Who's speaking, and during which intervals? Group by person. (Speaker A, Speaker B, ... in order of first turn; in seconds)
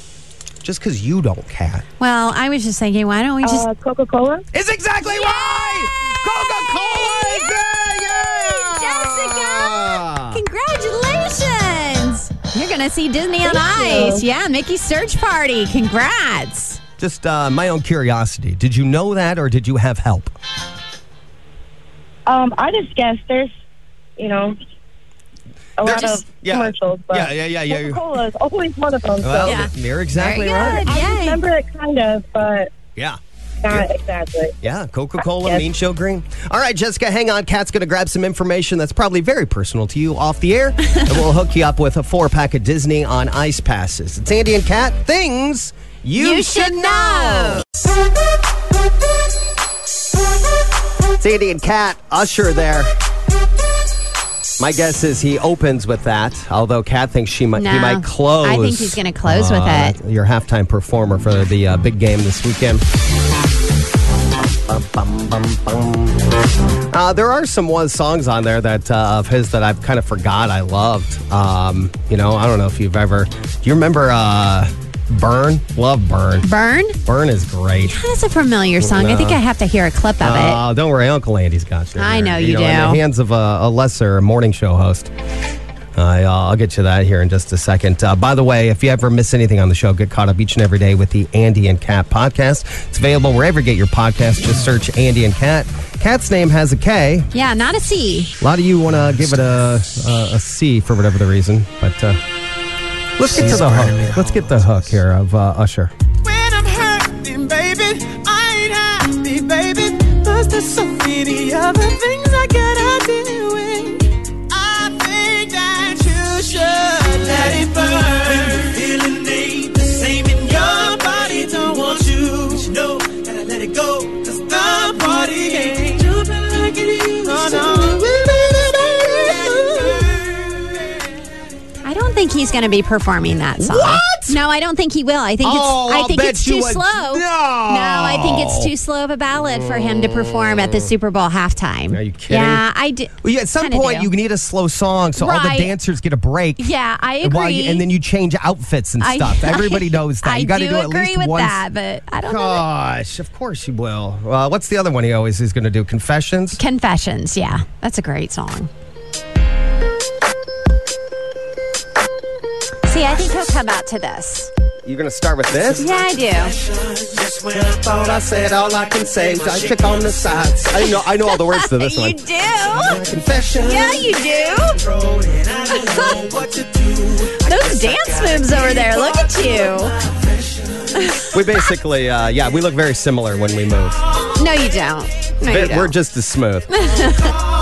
Speaker A: 0.6-1.8, 4.5-10.4, 17.0-20.3, 25.8-28.0, 29.2-30.9, 33.0-33.8, 34.6-47.6, 51.2-52.9, 54.6-62.8, 64.7-66.0, 66.9-76.5, 77.0-78.0, 78.8-79.4, 80.2-85.1, 86.0-97.3, 98.4-102.2, 103.2-105.9, 127.0-130.5, 133.6-134.4, 135.4-138.7, 139.4-140.9, 141.9-142.6, 143.2-151.6, 152.2-156.6, 164.8-165.9, 167.1-174.1, 181.3-184.0, 185.4-186.8
Speaker B: 2.0-3.7, 5.0-16.8, 29.4-31.4, 46.2-47.6, 57.5-60.0, 76.4-77.0, 77.8-80.6, 82.0-83.0, 97.3-98.3, 112.5-114.0, 131.8-144.1, 145.2-145.7, 146.6-147.9, 149.0-152.6, 156.5-158.7, 162.8-164.5, 165.8-166.6, 170.8-173.0, 173.6-174.9, 175.6-176.3, 177.2-180.1, 180.9-181.7, 184.3-185.9, 186.7-187.4
Speaker C: 3.4-4.4, 13.4-14.2, 22.3-23.5, 24.2-24.6, 25.8-29.6, 30.2-32.7, 33.6-34.5, 35.3-35.6
Speaker D: 106.2-112.4, 114.2-127.2, 175.0-175.6, 176.3-177.1